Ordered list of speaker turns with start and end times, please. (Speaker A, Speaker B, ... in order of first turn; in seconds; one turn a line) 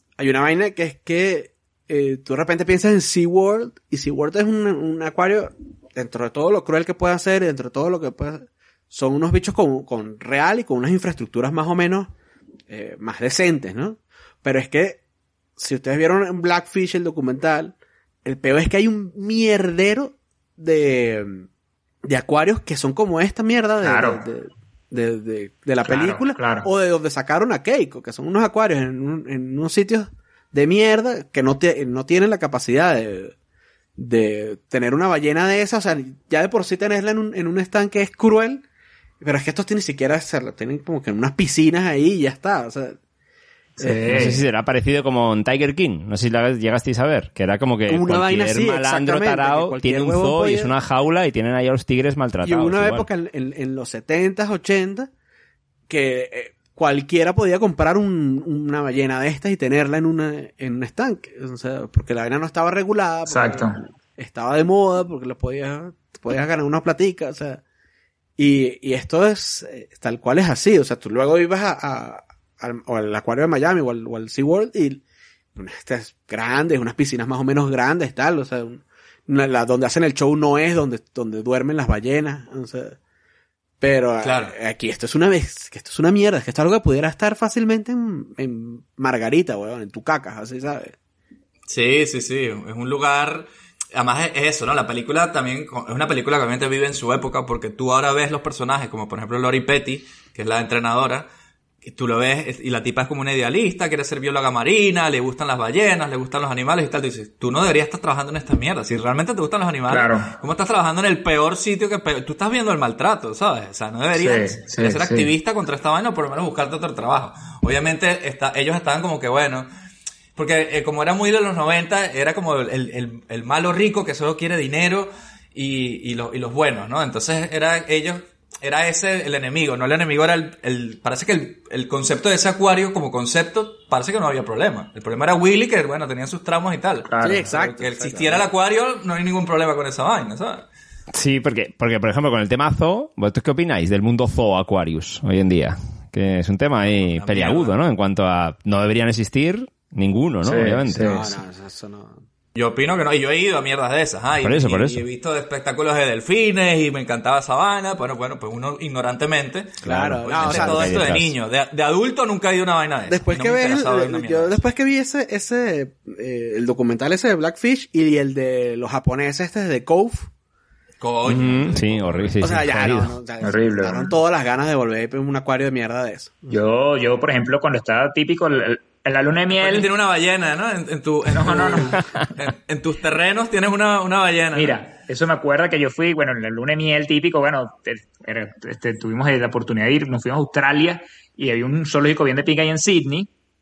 Speaker A: 0.2-12.1
Speaker A: 12.7-15.0
Speaker A: 15.6-21.4
Speaker A: 22.1-33.3
Speaker B: 23.8-24.2
Speaker B: 25.8-26.7
Speaker A: 34.0-38.6
Speaker A: 39.2-43.0
Speaker B: 43.8-44.4
Speaker A: 43.8-44.3
Speaker C: 44.1-53.1
Speaker A: 47.9-50.7
Speaker A: 52.4-55.1
Speaker A: 55.9-67.6
Speaker B: 63.3-63.8
Speaker A: 68.4-75.0
Speaker A: 75.5-83.0
Speaker A: 83.8-90.9
Speaker D: 84.2-84.5
Speaker D: 91.7-101.3
Speaker D: 101.8-119.7
Speaker B: 109.9-110.3
Speaker B: 114.2-115.3
Speaker D: 120.4-140.6
Speaker B: 137.1-137.5
Speaker A: 137.2-138.5
Speaker C: 141.1-151.3
Speaker D: 146.9-147.7
Speaker B: 150.4-151.2
Speaker A: 151.0-152.2
Speaker D: 152.6-164.6
Speaker C: 154.4-155.1
Speaker C: 159.8-161.3
Speaker A: 159.9-161.0
Speaker A: 163.1-170.3
Speaker D: 171.0-172.4
Speaker C: 171.2-173.2
Speaker A: 172.4-176.5
Speaker B: 173.4-174.1
Speaker B: 176.5-179.9
Speaker D: 179.6-184.9
Speaker B: 181.3-182.0
Speaker B: 184.6-193.3